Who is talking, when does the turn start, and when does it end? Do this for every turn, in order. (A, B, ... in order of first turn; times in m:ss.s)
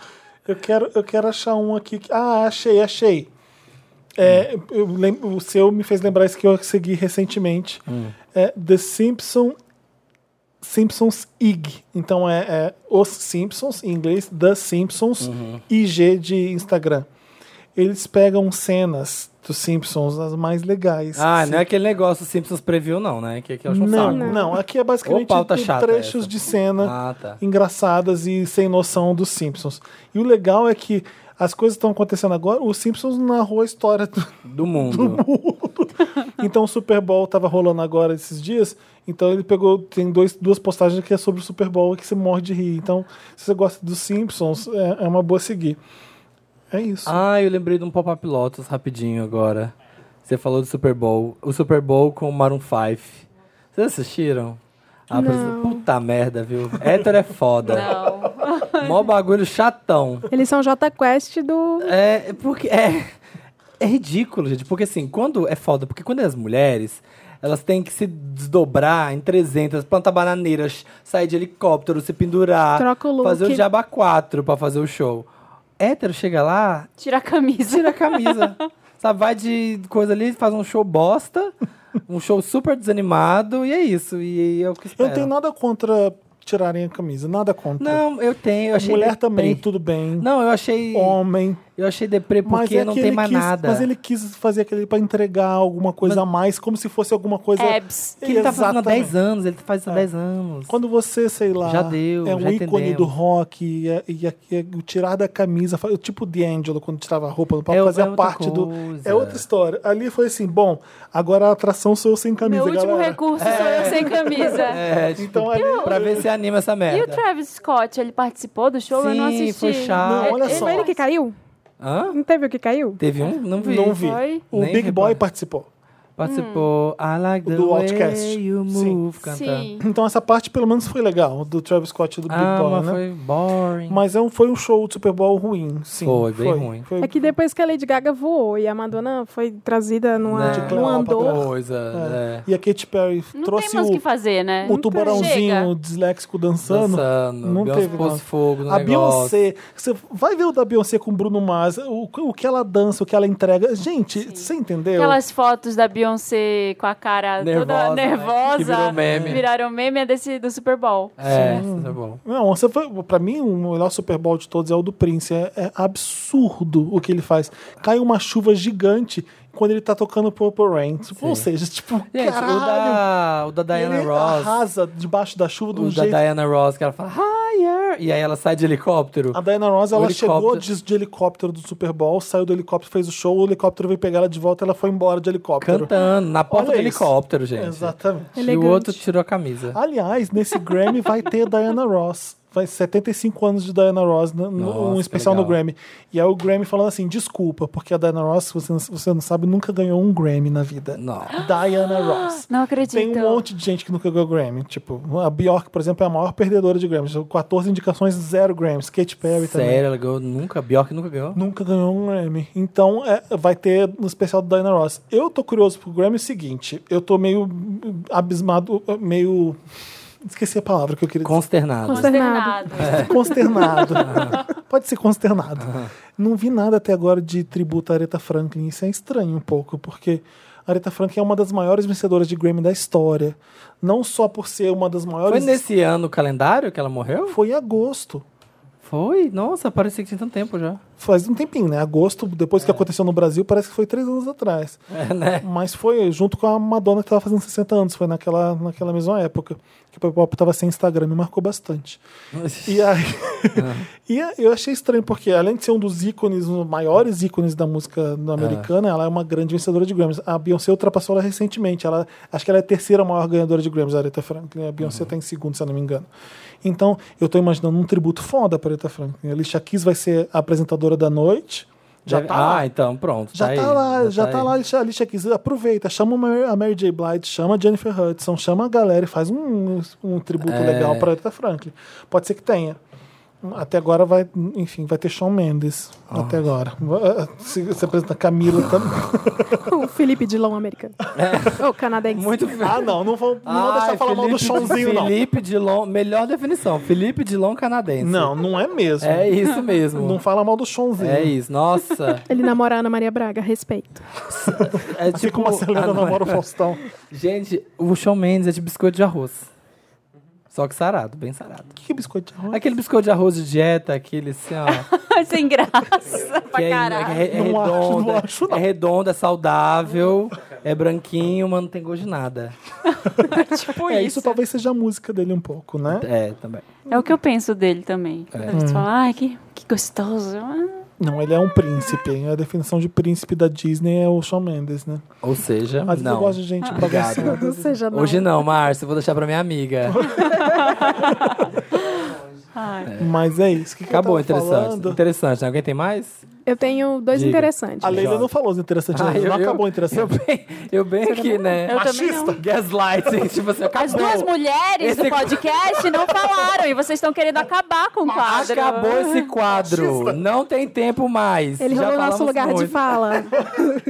0:00.4-0:03.3 A
0:04.2-0:09.6 A
0:07.9-0:08.2 B
0:10.6-0:17.1 A
0:15.2-0:15.6 B
0:17.8-0:21.6 A
0:21.2-0:24.4 B
0:23.7-0:45.8 A
0:23.8-0:24.5 C
0:25.0-0:27.4 B
0:34.5-0:35.2 B
0:46.7-0:47.2 A
0:47.0-0:49.7 B
0:50.2-0:58.0 B
0:55.1-0:55.8 C
0:57.6-0:59.0 D
0:58.8-1:00.3 B
1:00.3-1:01.9 C
1:01.8-1:03.1 B
1:03.8-1:15.3 B
1:12.8-1:13.6 C
1:15.8-1:16.9 B
1:17.0-1:18.5 D
1:17.7-1:21.5 B
1:22.1-1:25.3 B
1:25.0-1:28.0 A
1:27.8-1:29.6 B
1:28.8-1:30.3 A
1:30.2-1:31.2 B
1:30.9-1:31.6 A
1:31.8-1:33.9 B
1:32.4-1:39.1 A
1:37.6-1:38.2 D
1:38.2-1:40.8 B
1:40.7-1:56.3 A
1:41.6-1:43.1 B
1:47.7-1:49.4 B
1:52.4-1:54.8 D
1:53.4-1:57.2 B
1:55.5-1:56.2 D
1:56.9-2:01.0 D
1:58.9-2:00.4 B
2:00.0-2:00.9 A
2:00.4-2:01.3 C
2:01.8-2:02.2 B
2:02.1-2:03.0 C
2:03.0-2:05.2 B
2:03.6-2:04.4 D
2:03.6-2:05.7 A
2:06.2-2:09.7 B
2:06.2-2:06.7 D
2:07.4-2:09.0 A
2:09.3-2:09.8 D
2:09.8-2:13.0 A
2:12.3-2:14.0 B
2:13.9-2:17.1 A
2:16.0-2:16.9 B
2:17.0-2:21.4 C
2:20.3-2:22.4 B
2:20.4-2:24.0 A
2:23.3-2:25.7 D
2:24.6-2:35.2 A
2:24.6-2:25.3 C
2:26.7-2:29.3 B
2:27.8-2:28.0 D
2:34.2-2:41.6 D
2:37.4-2:39.4 B
2:39.1-2:39.4 A
2:41.2-2:42.2 B
2:41.2-2:53.0 A
2:51.2-2:51.5 B
2:52.1-2:54.6 B
2:53.7-2:56.2 A
2:55.7-2:59.4 B
2:59.3-3:05.9 A
2:59.9-3:00.6 B
3:05.6-3:09.8 B
3:06.5-3:08.4 A
3:08.4-3:09.0 C
3:09.7-3:29.8 A
3:14.6-3:15.6 B
3:21.0-3:21.4 B
3:21.3-3:23.4 D
3:29.3-3:31.4 B
3:31.3-3:39.6 A
3:40.2-3:41.4 A
3:41.2-3:42.2 B
3:41.8-3:43.0 C
3:41.9-3:44.2 D
3:42.8-3:43.2 B
3:42.8-3:55.6 A
3:43.5-3:43.8 C
3:44.0-3:44.4 B
3:45.6-3:45.9 B
3:55.3-3:57.4 B
3:57.3-3:58.2 A
3:58.8-4:00.8 B
4:01.0-4:04.8 A
4:04.9-4:05.5 B
4:05.4-4:12.0 A
4:12.3-4:12.9 B
4:12.6-4:26.1 A
4:13.5-4:13.9 B
4:18.4-4:18.7 B
4:24.8-4:25.1 B
4:26.6-4:32.6 A
4:32.0-4:34.5 B
4:33.3-4:42.8 A
4:40.4-4:41.1 B
4:43.4-4:49.7 A
4:46.1-4:46.4 B
4:49.6-4:52.5 C
4:51.1-4:52.9 B
4:52.6-4:55.2 A
4:53.4-4:58.3 B
4:58.0-4:59.4 A
4:59.0-5:00.2 B
4:59.9-5:01.3 A
5:01.0-5:02.2 B
5:02.3-5:04.1 C
5:04.3-5:06.4 B
5:04.6-5:06.8 A
5:07.1-5:09.5 B
5:10.5-5:11.7 B
5:11.8-5:12.6 A
5:12.5-5:14.9 B
5:14.7-5:17.2 D
5:16.5-5:22.6 B
5:17.3-5:18.6 A
5:22.9-5:24.4 D
5:23.7-5:26.1 A
5:25.9-5:26.6 B
5:26.9-5:30.8 D
5:28.3-5:28.6 B
5:28.5-5:28.9 A
5:31.0-5:35.0 A
5:35.2-5:40.3 B
5:35.8-5:37.8 A
5:37.2-5:38.3 C
5:39.9-5:40.6 A
5:40.2-5:42.9 D
5:42.8-5:43.1 B
5:43.0-5:45.0 A
5:43.9-5:46.2 B
5:46.4-5:48.0 C
5:47.1-5:48.3 B
5:47.8-5:50.1 A
5:48.9-5:51.8 B
5:51.1-5:51.4 C
5:51.6-5:52.4 D
5:51.7-5:52.4 A
5:52.4-5:56.1 B
5:53.7-5:59.3 D
5:58.1-6:03.1 B
5:59.5-6:00.2 A
6:01.6-6:03.8 C